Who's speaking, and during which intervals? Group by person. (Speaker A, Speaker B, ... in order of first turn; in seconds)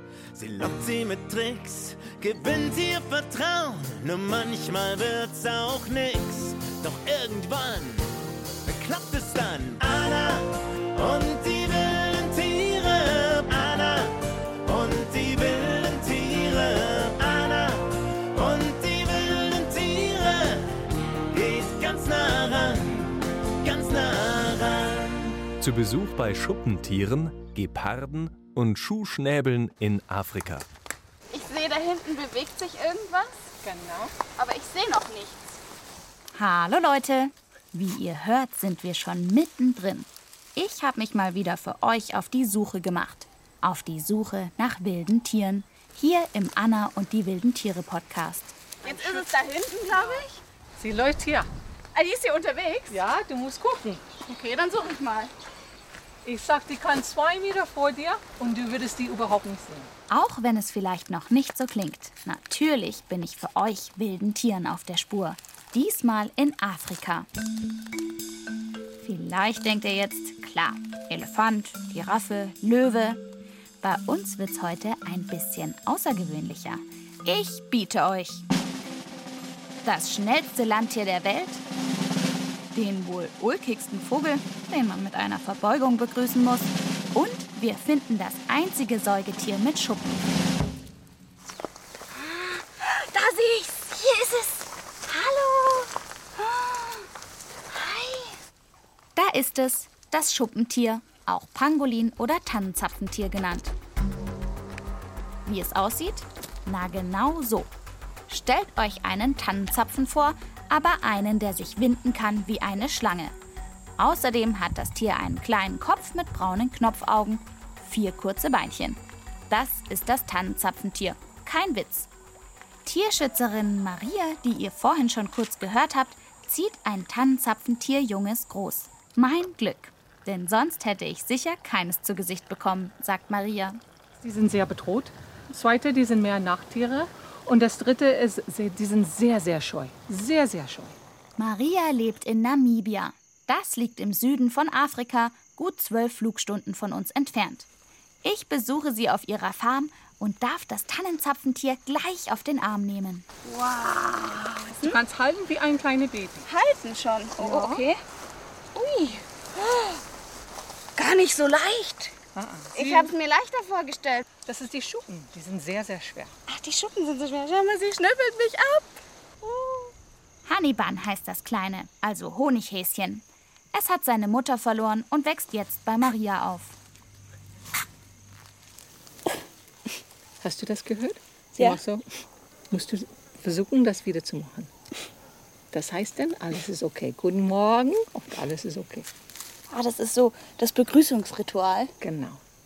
Speaker A: 0.3-8.0, 8.7-14.1, 14.7-20.7, 21.3-25.3
Speaker B: 25.6-30.7
Speaker C: 31.3-33.4, 34.4-35.4, 48.8-50.4, 51.9-53.0, 54.3-55.3, 92.1-97.1, 97.7-98.4, 153.4-155.0, 156.5-158.0, 158.8-160.0, 161.0-162.2, 162.7-164.2, 166.5-169.9, 189.7-191.9
Speaker D: 33.6-34.1, 48.8-49.3, 50.8-51.5, 52.9-54.0, 56.2-59.9, 134.2-141.0, 154.7-156.5, 157.4-157.8, 162.3-163.1, 164.5-166.3, 180.4-182.0, 182.7-184.7, 185.7-189.1, 192.0-192.4
Speaker E: 36.4-48.6, 60.1-67.3, 69.0-73.2, 73.8-78.5, 79.8-81.6, 82.7-90.2, 99.2-103.7, 105.5-107.7, 108.3-113.3, 114.0-122.1, 122.8-133.8, 141.4-147.7, 148.2-153.2, 170.4-176.8